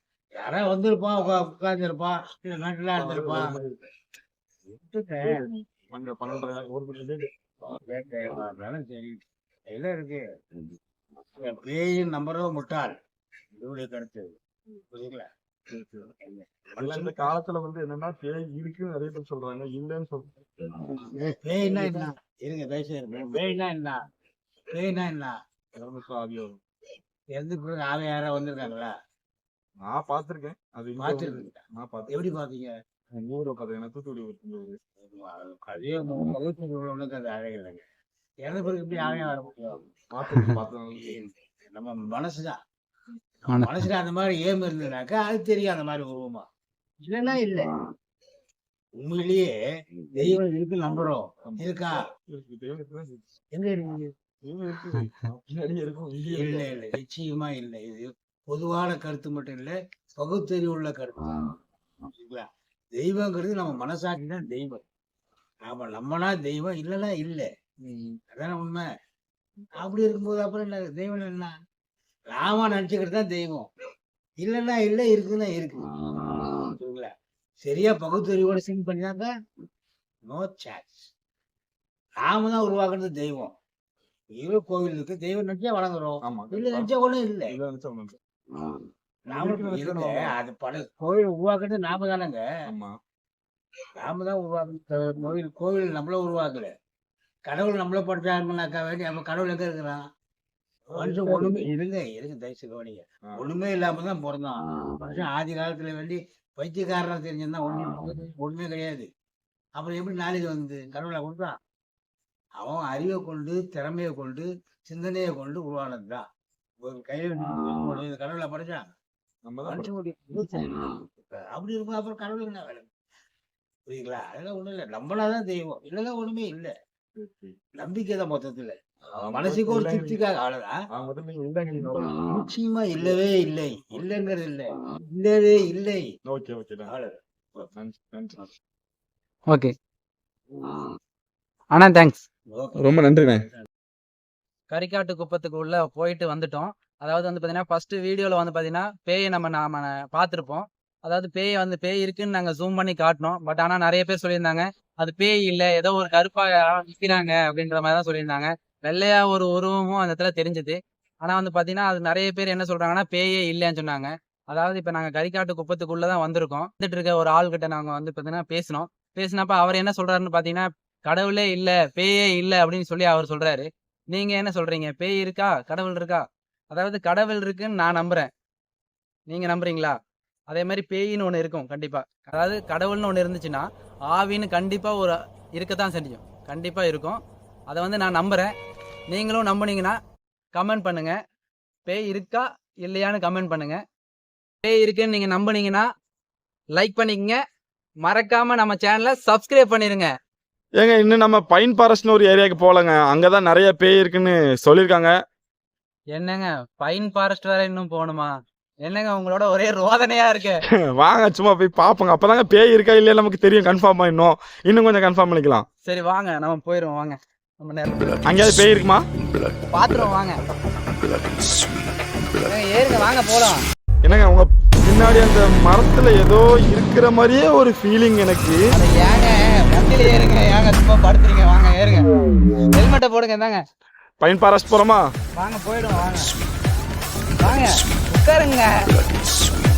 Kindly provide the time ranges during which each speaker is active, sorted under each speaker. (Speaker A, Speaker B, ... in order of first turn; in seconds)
Speaker A: 0.4-3.5, 4.7-5.4, 7.9-10.2, 11.4-12.9, 13.6-14.3, 14.9-15.3, 16.2-17.2, 21.4-24.0, 24.7-25.3, 27.3-28.9, 31.0-32.7, 35.0-37.8, 38.5-39.9, 41.1-42.6, 43.4-46.5, 47.0-47.7, 49.0-49.5, 50.1-52.0, 53.5-54.1, 56.3-61.5, 62.1-64.8, 65.7-67.5, 68.3-68.8, 69.8-71.5, 72.3-73.7, 74.4-75.8, 76.5-77.1, 77.6-79.3, 80.3-81.1, 82.2-83.5, 84.4-87.5, 89.3-92.4, 94.0-96.7, 97.5-100.0, 100.9-109.1, 109.8-111.5, 112.6-116.2, 116.8-118.8, 119.7-122.9, 123.9-126.7, 127.8-130.7, 132.3-136.1, 136.9-137.1, 142.5-142.8
Speaker B: 3.0-3.8, 5.2-7.3, 15.7-16.1, 16.8-20.7, 25.7-26.6, 29.8-32.1, 33.1-34.8, 40.1-41.2, 51.4-51.7, 52.3-53.3, 54.4-56.6, 67.8-68.2, 86.2-86.9, 87.5-88.2, 89.3-90.3, 92.7-92.9, 100.9-101.7, 119.4-119.9, 127.2-127.6, 129.2-130.2, 130.9-132.3, 136.2-136.9, 137.7-138.5, 142.8-143.4, 200.8-205.1, 210.9-215.7, 218.2-219.0, 224.0-228.6, 234.2-235.1
Speaker C: 43.5-43.8, 141.7-142.2, 144.7-178.3, 179.3-179.9, 180.5-188.5, 189.1-190.0, 190.5-191.2, 191.8-193.8, 194.6-195.9, 196.8-197.4, 198.0-200.1, 206.2-208.3, 208.8-210.6, 215.8-218.2, 219.7-220.4, 222.4-223.6, 228.7-232.1, 232.7-233.6, 235.4-236.3, 237.4-238.7